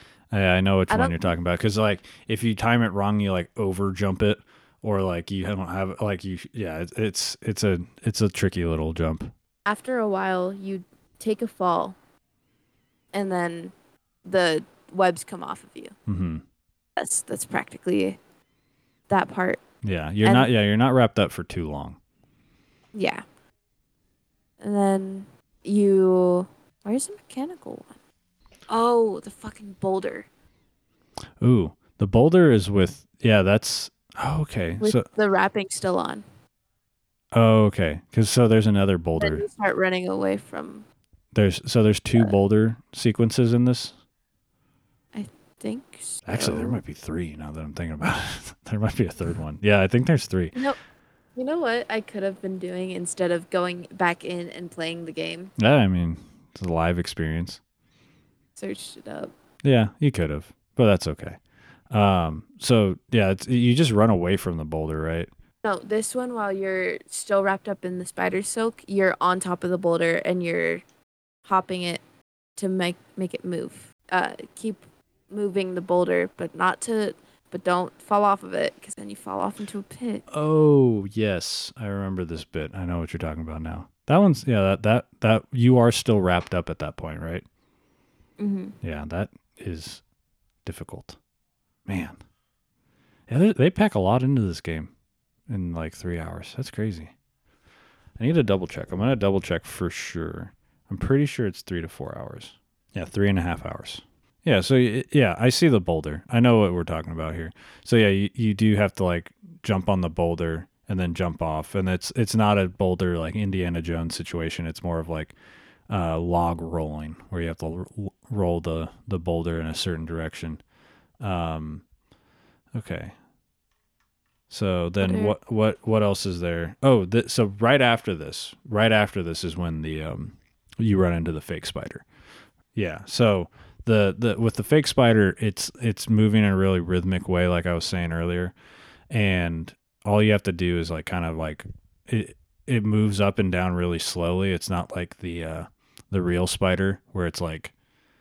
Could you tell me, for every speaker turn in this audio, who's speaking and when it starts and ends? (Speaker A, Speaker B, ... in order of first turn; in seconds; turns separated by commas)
Speaker A: 0.3-9.3, Speaker B: 0.9-1.3, Speaker B: 9.7-11.9, Speaker B: 13.1-13.7, Speaker B: 14.2-15.9, Speaker A: 16.1-16.4, Speaker B: 17.0-18.2, Speaker B: 19.1-19.6, Speaker A: 19.8-22.0, Speaker B: 20.2-20.5, Speaker B: 22.9-23.2, Speaker B: 24.6-27.9, Speaker B: 28.7-30.3, Speaker A: 31.4-35.0, Speaker B: 34.8-36.2, Speaker A: 37.3-39.5, Speaker B: 39.2-40.8, Speaker A: 41.3-44.0, Speaker B: 45.1-46.8, Speaker A: 46.2-50.5, Speaker B: 51.4-55.5, Speaker A: 55.6-57.6, Speaker B: 58.5-59.3, Speaker A: 59.6-61.4, Speaker A: 61.9-65.3, Speaker B: 65.6-70.8, Speaker B: 71.4-72.0, Speaker B: 72.6-80.2, Speaker A: 80.3-87.4, Speaker B: 88.4-88.7, Speaker A: 88.8-90.0, Speaker A: 90.6-91.2, Speaker A: 91.8-92.2, Speaker A: 93.3-94.9, Speaker A: 95.5-97.1, Speaker A: 98.2-115.3, Speaker A: 115.9-120.6, Speaker A: 121.2-121.8, Speaker A: 122.7-123.1, Speaker A: 124.5-132.0, Speaker B: 125.0-125.3, Speaker A: 132.7-138.5, Speaker A: 139.1-147.7